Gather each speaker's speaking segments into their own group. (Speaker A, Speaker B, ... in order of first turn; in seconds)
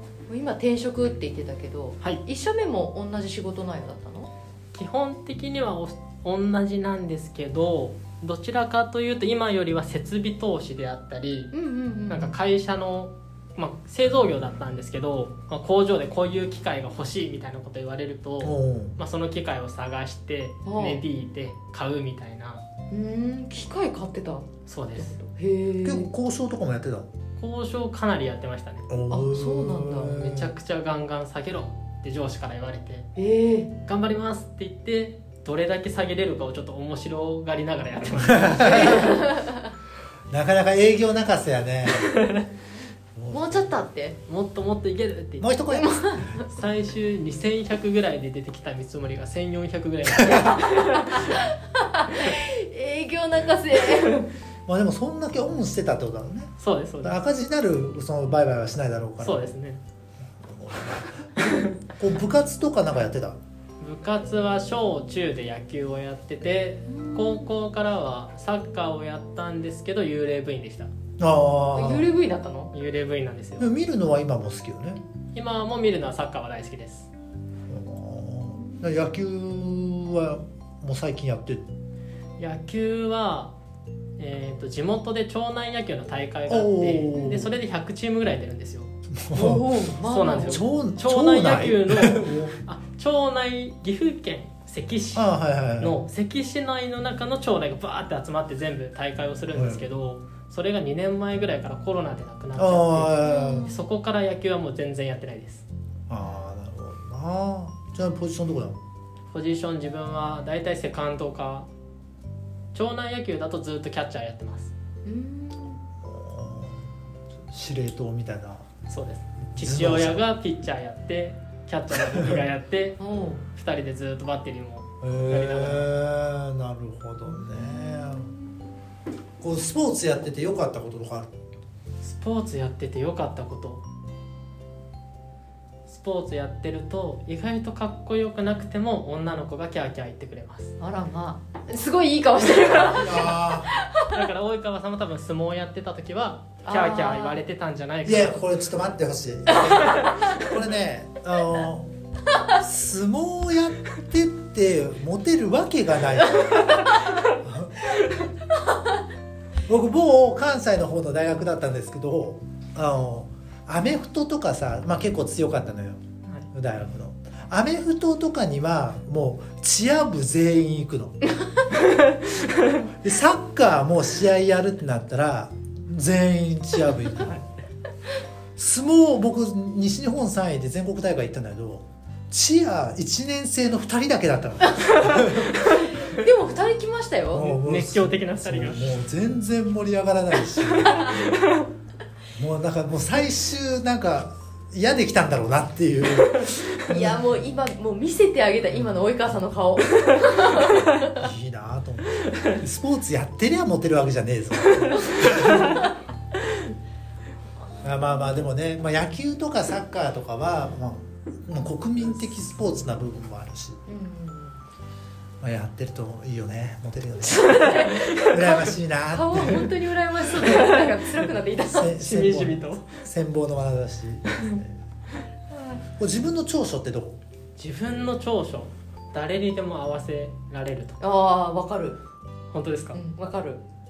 Speaker A: 0.3-4.3, 11.5-12.3, 20.6-21.0, 22.9-26.1, 29.1-30.2, 33.1-33.7, 38.8-39.6, 43.3-44.2, 45.7-46.4, 51.1-54.3, 66.9-67.5, 71.7-72.7, 87.1-87.4, 89.3-90.6, 103.2-103.8, 115.0-115.8, 123.0-123.4, 127.5-128.4, 140.8-144.2, 146.7-147.4, 185.6-187.6, 196.9-201.2, 213.9-214.6, 217.2-221.9, 225.5-225.8, 231.0-232.0, 232.9-233.6
Speaker B: 4.7-11.5, 12.1-22.6, 24.6-25.2, 27.4-28.9, 30.1-33.1, 33.9-39.2, 41.9-42.4, 44.2-45.5, 46.4-51.3, 56.6-57.2, 59.2-59.8, 61.4-61.7, 63.8-70.9, 72.7-73.7, 75.3-77.1, 82.4-83.5, 84.2-88.9, 90.0-105.6, 109.3-111.7, 112.7-114.7, 118.9-123.0, 123.5-125.9, 132.0-133.8, 135.8-140.7, 144.0-148.4, 185.0-185.8, 187.6-188.9, 190.7-191.7, 220.3-221.0, 221.9-223.0, 227.6-231.0, 232.5-233.0
Speaker C: 18.4-19.0, 25.8-27.1, 28.9-30.5, 38.2-39.2, 40.3-42.2, 43.1-43.7, 45.4-46.3, 54.7-59.5, 60.4-63.4, 71.2-72.1, 73.6-75.0, 77.7-81.7, 86.5-87.5, 89.2-89.8, 90.5-92.5, 95.1-96.0, 99.5-99.8, 102.5-103.7, 106.1-108.8, 116.0-118.7, 119.5-120.2, 125.0-128.3, 129.4-131.3, 142.9-143.7, 148.0-151.9, 152.5-157.9, 159.7-171.2, 172.8-177.4, 178.6-185.7, 187.3-191.2, 192.3-197.3, 201.0-205.8, 207.8-213.8, 215.4-219.7, 221.7-224.8, 226.0-227.2